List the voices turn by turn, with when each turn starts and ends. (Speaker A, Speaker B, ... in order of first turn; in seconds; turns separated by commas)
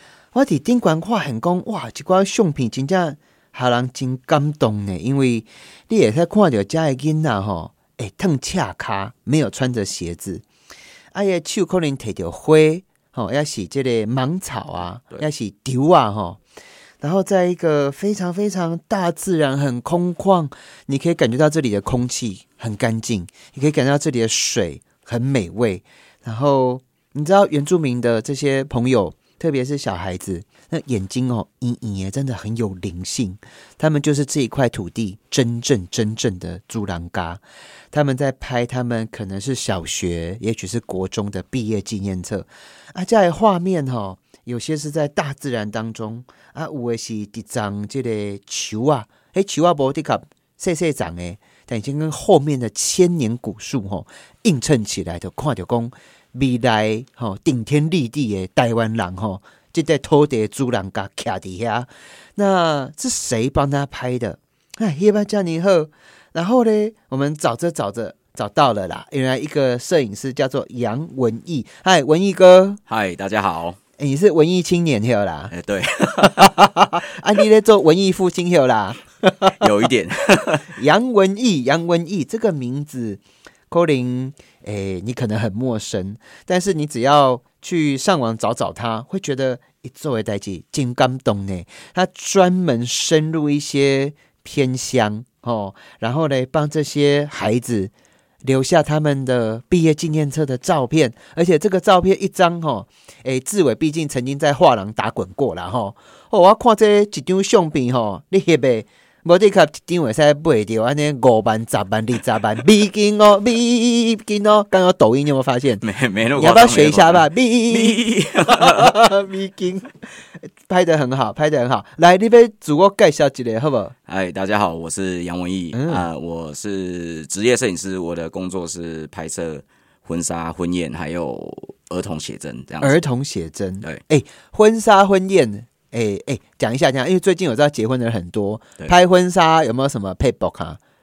Speaker A: 0.3-10.4, Speaker A: 11.1-16.4, Speaker A: 17.0-72.8, Speaker B: 72.9-73.8, Speaker A: 74.0-75.5, Speaker B: 75.5-76.6, Speaker A: 76.2-79.6, Speaker B: 79.6-80.7, Speaker A: 80.7-97.9, Speaker A: 98.5-115.8, Speaker B: 115.8-118.9, Speaker A: 116.4-120.1, Speaker A: 120.7-123.9, Speaker B: 124.1-133.0, Speaker A: 125.7-126.1, Speaker A: 132.8-140.8